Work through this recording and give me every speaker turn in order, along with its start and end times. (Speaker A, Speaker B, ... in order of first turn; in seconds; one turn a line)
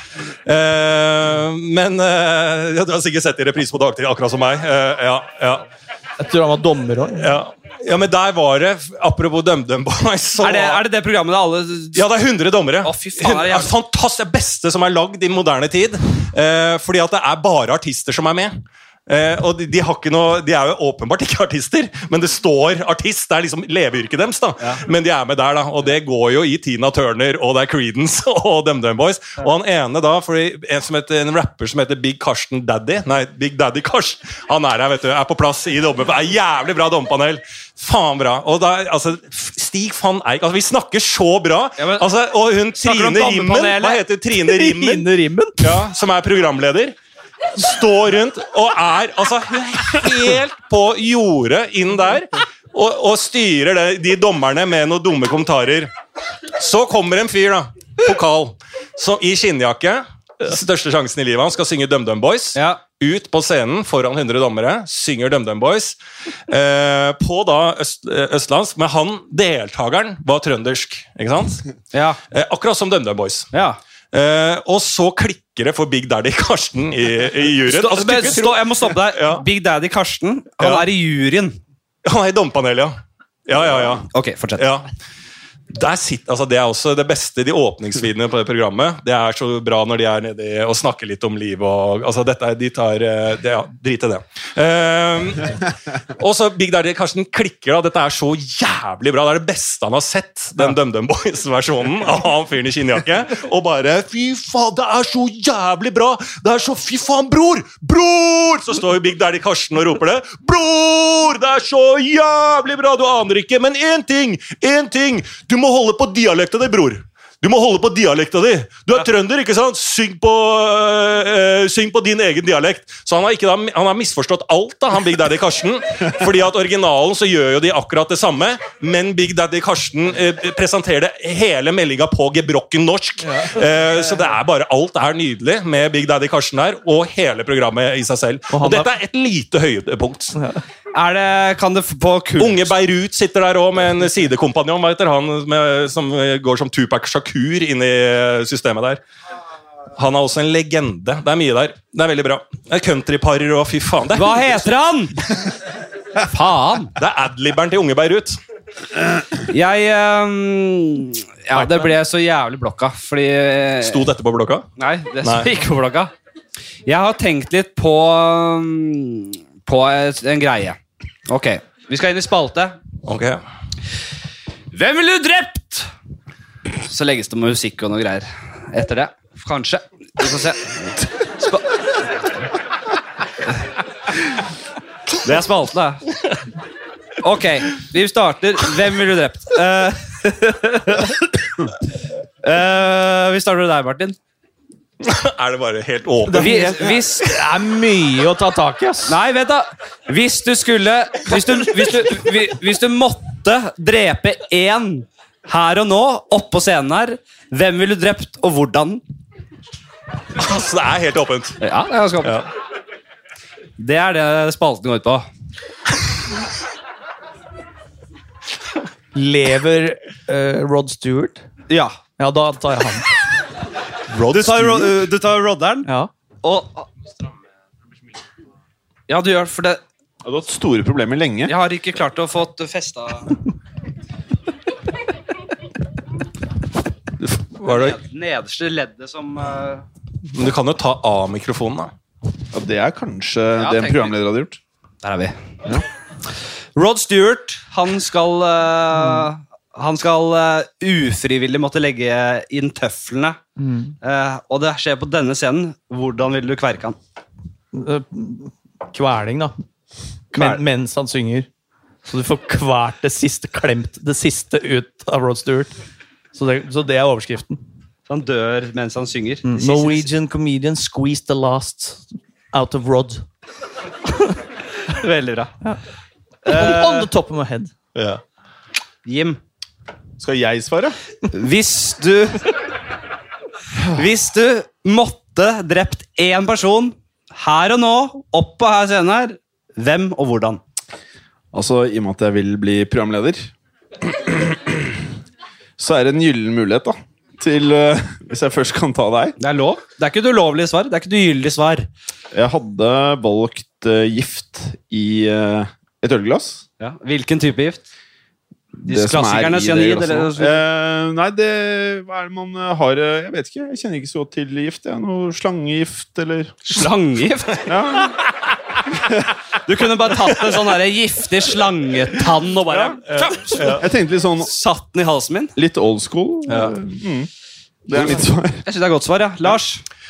Speaker A: 0.4-5.6
Speaker B: 6.2-7.3
Speaker A: 7.2-10.8
Speaker C: 10.4-12.1
Speaker A: 11.9-45.1
Speaker C: 12.8-13.7
Speaker C: 41.8-42.1
Speaker C: 42.8-44.0
Speaker B: 44.3-45.7
Speaker A: 45.6-47.0
Speaker A: 47.5-55.9
Speaker A: 56.5-66.0
Speaker C: 62.5-62.8
Speaker A: 66.5-71.6
Speaker C: 71.9-72.2
Speaker A: 72.3-73.5
Speaker C: 73.5-73.8
Speaker A: 74.1-79.4
Speaker C: 77.7-81.6
Speaker A: 80.6-80.9
Speaker A: 82.0-84.9
Speaker C: 84.0-84.7
Speaker A: 85.7-95.6
Speaker A: 96.2-140.4
Speaker B: 133.2-133.6
Speaker B: 138.5-138.9
Speaker B: 140.3-140.6
Speaker C: 140.9-142.7
Speaker A: 142.4-149.0
Speaker A: 149.9-154.7
Speaker C: 154.1-155.3
Speaker C: 156.2-156.9
Speaker A: 156.9-158.4
Speaker C: 159.4-164.1
Speaker A: 163.8-164.7
Speaker C: 164.8-166.1
Speaker A: 165.2-165.5
Speaker C: 166.8-172.8
Speaker A: 173.0-173.4
Speaker C: 174.7-175.9
Speaker C: 176.8-182.3
Speaker C: 185.2-186.0
Speaker C: 187.2-191.2
Speaker C: 192.4-194.2
Speaker A: 195.0-197.0
Speaker B: 196.3-199.2
Speaker C: 196.3-197.3
Speaker C: 199.1-209.0
Speaker A: 210.3-211.6
Speaker C: 211.6-212.4
Speaker A: 212.2-212.5
Speaker C: 213.8-215.3
Speaker B: 219.1-221.4
Speaker C: 221.7-222.0
Speaker B: 222.2-223.1
Speaker A: 224.1-225.0
Speaker C: 224.3-225.9
Speaker C: 226.4-226.9
Speaker C: 229.1-229.8
Speaker D: 230.2-231.5
Speaker C: 231.4-233.3
Speaker A: 237.2-238.0
Speaker C: 237.6-239.8
Speaker A: 240.3-241.9
Speaker D: 242.5-244.6
Speaker C: 243.6-244.2
Speaker C: 245.0-245.8
Speaker C: 246.8-253.4
Speaker B: 253.6-253.9
Speaker C: 254.0-257.0
Speaker B: 257.7-259.6
Speaker B: 260.3-261.5
Speaker C: 260.3-260.6
Speaker B: 262.0-265.7
Speaker B: 266.3-267.6
Speaker C: 268.1-270.1
Speaker B: 269.4-273.2
Speaker C: 274.9-275.5
Speaker C: 276.4-277.1
Speaker B: 276.4-277.7
Speaker A: 277.9-278.2
Speaker C: 279.1-279.4
Speaker D: 280.2-280.9
Speaker C: 281.3-282.5
Speaker C: 283.9-290.6
Speaker D: 291.5-293.5
Speaker D: 295.8-299.4
Speaker C: 299.4-301.9
Speaker D: 302.3-306.6
Speaker C: 306.8-307.8
Speaker D: 308.8-316.6
Speaker C: 308.9-310.6
Speaker C: 316.6-317.7
Speaker D: 317.6-318.2
Speaker C: 319.6-323.8
Speaker A: 322.7-323.9
Speaker D: 323.7-324.5
Speaker C: 324.4-325.5
Speaker D: 325.6-327.3
Speaker A: 326.5-326.7
Speaker D: 327.9-328.6
Speaker C: 327.9-329.8